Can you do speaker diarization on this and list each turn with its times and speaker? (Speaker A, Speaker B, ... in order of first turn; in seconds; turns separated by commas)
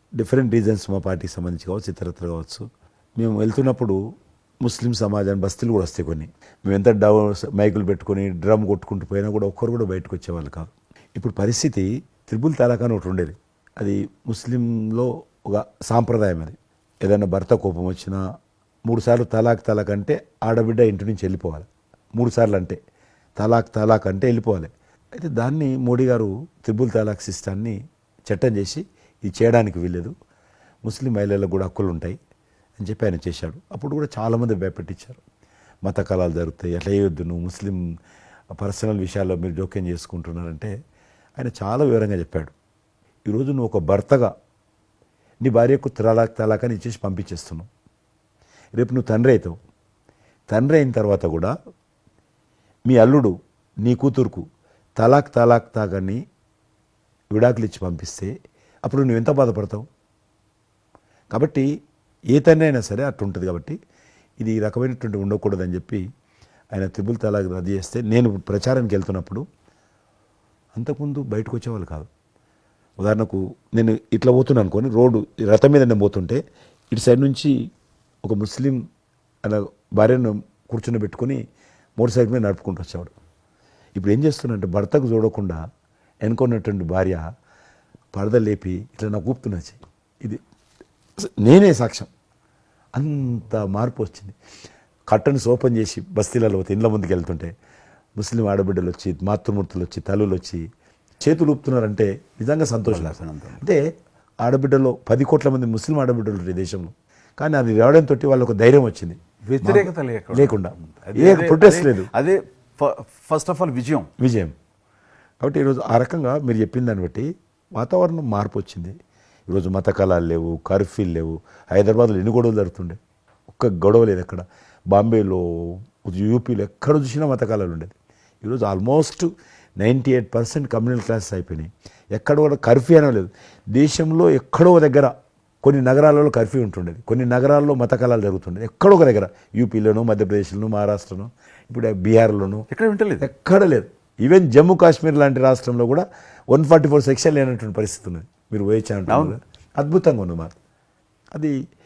Speaker A: 0.2-2.6, Speaker A: 3.2-4.0, Speaker A: 4.6-18.2, Speaker A: 18.9-22.8, Speaker A: 23.4-27.8, Speaker A: 28.3-30.1, Speaker A: 30.8-32.2, Speaker A: 32.8-35.2, Speaker A: 35.8-37.8, Speaker A: 38.6-40.7, Speaker A: 41.4-42.5, Speaker A: 43.3-44.3, Speaker A: 45.4-47.7, Speaker A: 48.7-49.5, Speaker A: 50.5-51.5, Speaker A: 52.9-54.4, Speaker A: 55.0-56.2, Speaker A: 57.3-58.3, Speaker A: 58.8-59.9, Speaker A: 61.3-61.7, Speaker A: 62.3-63.8, Speaker A: 64.4-66.0, Speaker A: 66.7-69.4, Speaker A: 70.7-72.1, Speaker A: 73.0-77.5, Speaker A: 78.2-78.8, Speaker A: 79.4-81.4, Speaker A: 82.0-83.1, Speaker A: 83.9-85.6, Speaker A: 86.2-87.2, Speaker A: 88.1-90.4, Speaker A: 91.2-92.1, Speaker A: 92.9-94.3, Speaker A: 95.1-97.5, Speaker A: 98.2-100.7, Speaker A: 101.2-103.8, Speaker B: 102.8-103.6, Speaker A: 104.4-112.1, Speaker B: 109.4-114.1, Speaker A: 114.2-114.5, Speaker A: 115.4-119.0, Speaker A: 119.5-123.0, Speaker A: 123.5-142.7, Speaker B: 142.7-143.3, Speaker A: 143.2-150.6, Speaker B: 149.1-149.4